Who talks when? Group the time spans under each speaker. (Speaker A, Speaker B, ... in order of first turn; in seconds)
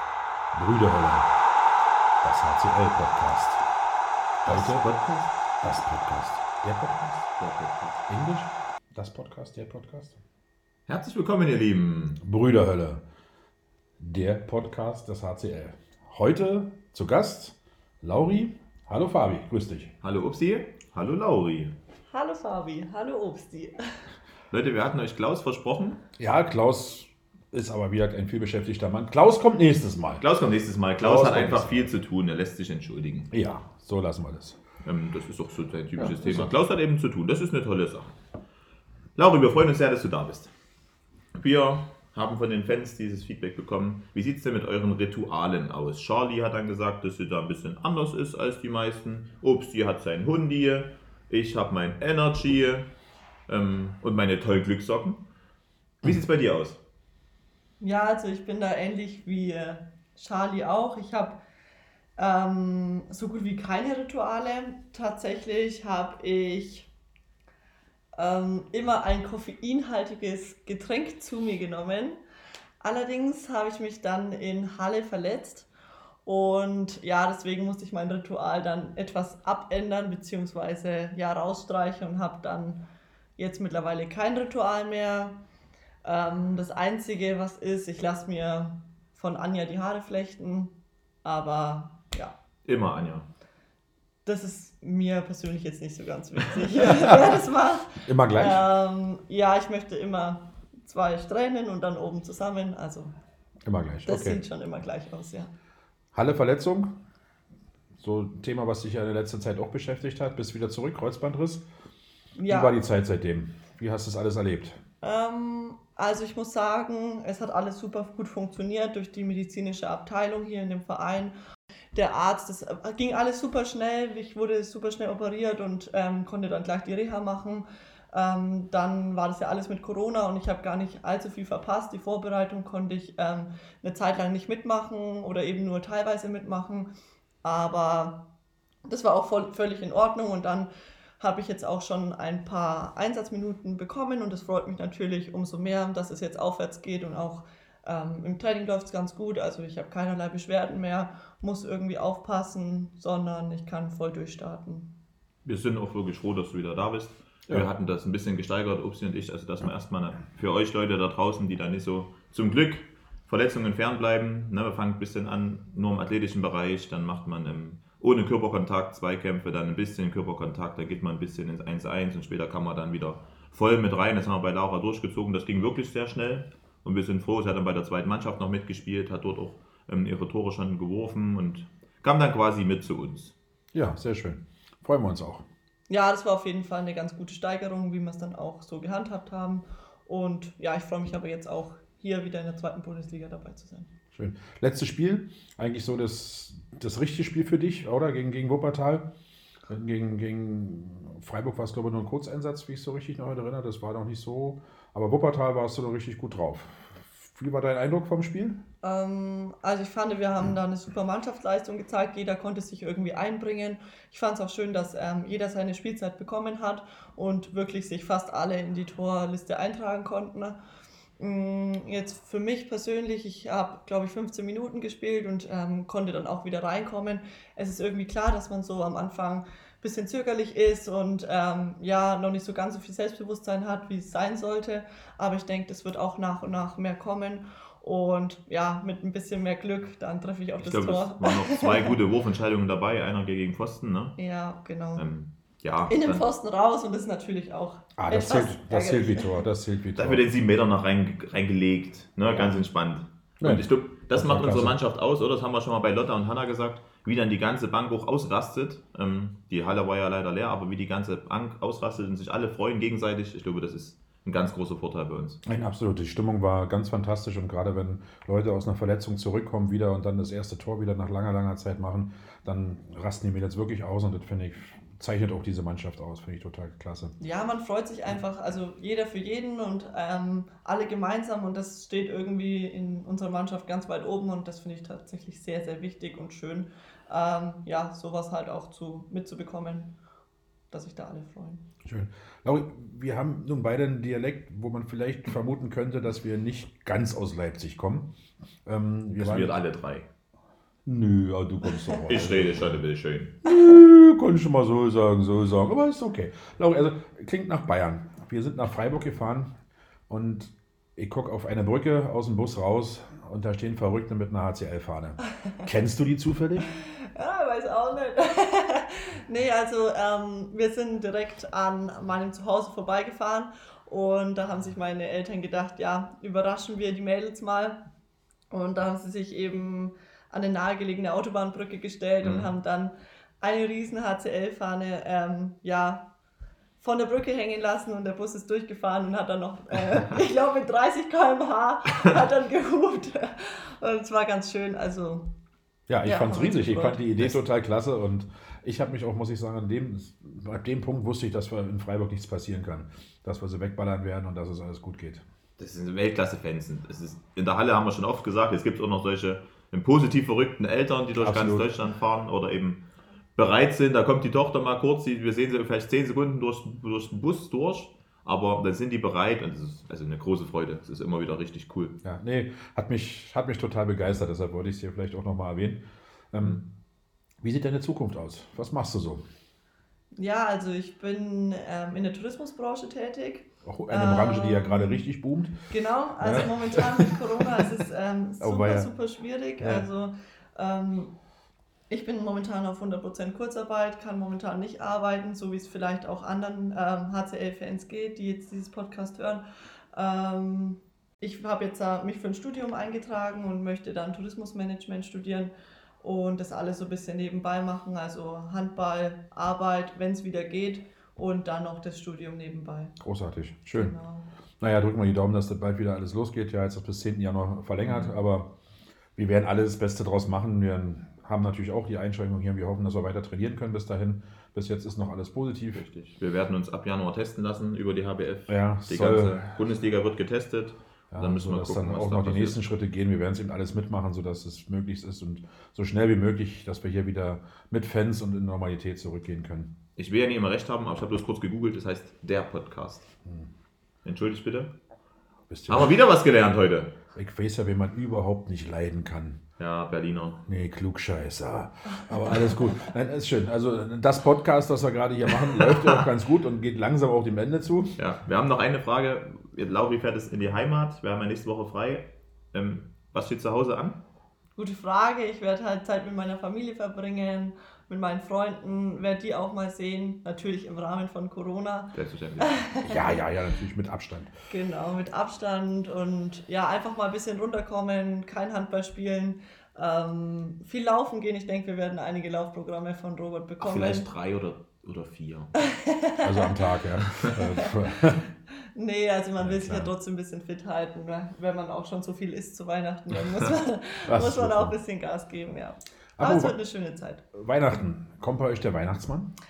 Speaker A: 0.5-1.3, 2.2-3.6, 4.5-4.9, 5.6-7.3, 8.1-10.2, 12.2-13.0, 14.0-19.9, 26.2-30.2, 31.0-31.9, 33.3-34.6, 36.0-36.5, 96.8-97.4, 98.0-98.7, 103.7-104.4, 106.1-106.9, 108.0-111.7, 112.5-114.8, 183.7-185.4, 194.1-199.1, 199.7-208.6, 248.0-250.2, 253.4-254.8, 265.4-277.1, 291.9-298.1, 298.6-299.5, 300.9-302.7, 303.4-309.5, 310.1-316.7, 345.9-355.2, 361.1-361.7, 372.0-376.6, 377.4-379.2, 383.6-385.5, 386.2-387.1, 388.4-388.9, 389.6-389.9, 413.0-413.9, 414.6-418.5, 419.2-425.9, 428.5-429.5, 431.1-439.7, 445.5-445.9, 447.1-449.4, 450.5-458.0, 472.8-474.3, 486.2-488.2, 489.4-489.9, 494.1-494.8, 496.2-496.6, 497.3-499.3
Speaker B: 4.5-5.3, 7.4-8.0, 10.9-12.2, 20.0-21.7, 24.5-26.0, 30.2-33.3, 34.8-38.2, 39.2-40.5, 41.4-52.9, 53.5-55.2, 56.0-56.8, 92.7-93.3, 155.4-183.3, 240.6-244.2, 244.9-246.2, 250.0-265.4, 299.2-300.1, 302.1-303.4, 332.2-332.5, 355.6-362.8, 363.4-371.9, 376.4-376.7, 417.8-418.1, 425.7-432.6, 440.0-443.1, 444.1-444.7, 445.7-447.0, 449.6-450.4, 458.0-464.0, 471.9-472.6, 483.6-485.5
Speaker C: 22.1-23.8, 57.8-61.4, 62.2-66.9, 68.2-72.2, 72.8-75.7, 76.2-82.8, 83.4-85.4, 86.0-92.3, 94.2-103.1, 104.1-105.5, 112.4-112.8, 115.0-121.3, 121.9-136.9, 137.4-138.2, 138.8-154.9, 185.9-193.9, 208.8-220.6, 221.2-241.9, 244.2-245.1, 245.9-249.4, 277.2-289.9, 290.7-291.6, 316.7-327.8, 328.5-336.1, 336.8-345.3, 346.0-347.4, 380.1-385.1, 385.7-391.1, 391.9-412.9, 413.7-414.3, 464.6-473.3, 474.5-484.1, 485.6-486.6, 487.4-487.7, 488.8-497.2